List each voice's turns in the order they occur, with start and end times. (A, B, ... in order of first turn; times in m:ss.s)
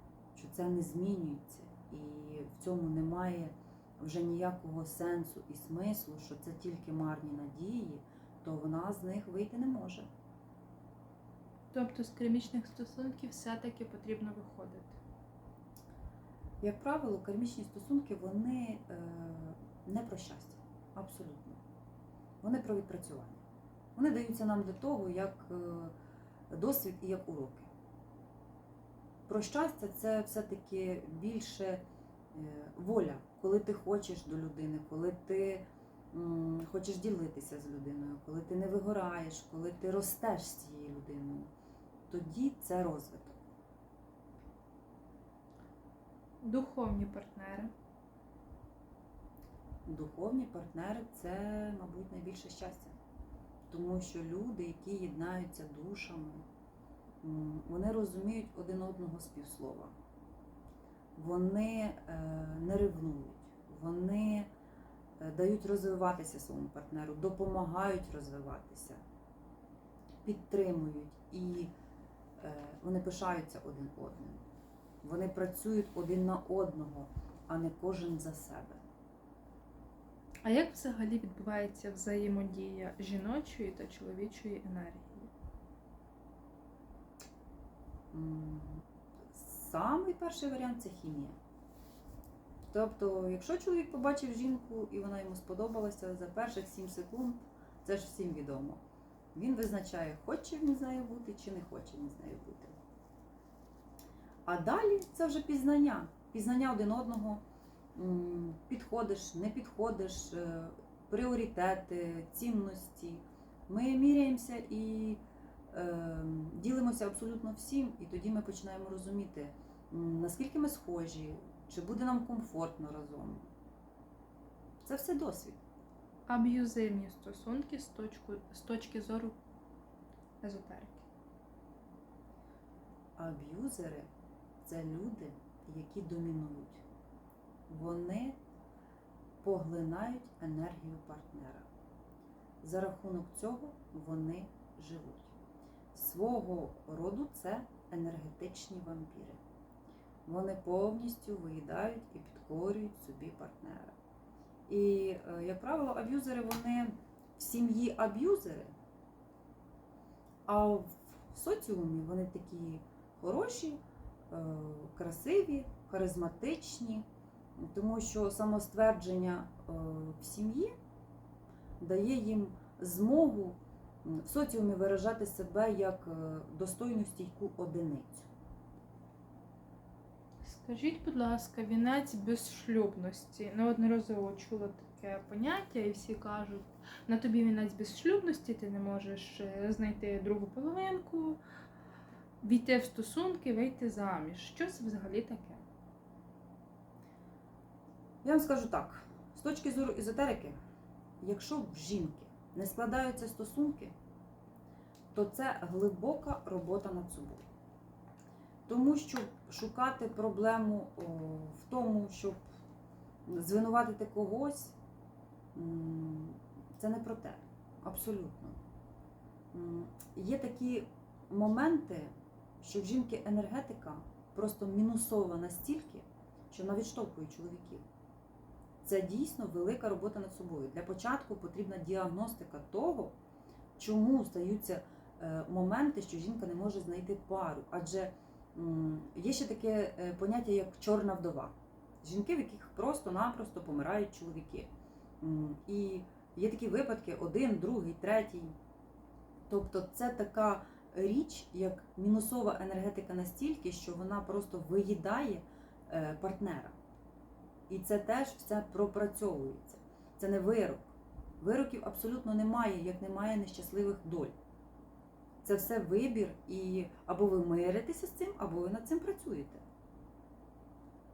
0:00.3-0:10.1 A
0:11.7-0:15.0 B
0:16.6-0:21.6 A
0:22.4-0:23.4 A
0:24.0-0:25.9 A
0:26.5-0:27.7 A
0:29.3-0:41.5 A
0:42.1-0:43.4 A
0:46.4-0:47.7 B
0:49.8-0:53.0 A
0:53.7-0:56.4 A
0:57.2-0:59.9 A
1:01.2-1:04.5 A
1:05.2-1:09.0 A
1:10.2-1:11.7 A
1:12.4-1:14.4 A
1:15.0-1:18.8 A
1:20.4-1:25.3 B
1:28.1-1:31.3 A
1:32.7-1:38.8 A
1:39.3-1:42.7 A
1:44.4-1:47.4 A
1:47.9-2:03.5 A
2:04.8-2:05.6 A
2:06.3-2:09.4 B
2:10.4-2:11.0 B
2:13.2-2:14.1 A
2:14.6-2:16.8 A
2:17.7-2:18.4 A
2:19.4-2:21.7 A
2:22.6-2:25.3 A
2:25.9-2:29.4 A
2:30.2-2:33.9 A
2:34.7-2:38.7 A
2:40.4-2:47.0 A
2:47.6-2:50.7 A
2:51.8-2:58.3 A
3:00.4-3:11.4 B
3:12.4-3:15.6 B
3:18.2-3:20.5 A
3:21.2-3:23.9 A
3:25.1-3:27.4 A
3:28.7-3:32.4 A
3:33.2-3:34.7 A
3:35.5-3:38.6 A
3:39.5-3:42.1 A
3:42.6-3:47.8 A
3:48.8-3:53.1 A
3:53.8-4:04.7 A
4:05.2-4:08.5 A
4:09.5-4:16.8 A
4:17.7-4:24.3 A
4:25.4-4:29.6 A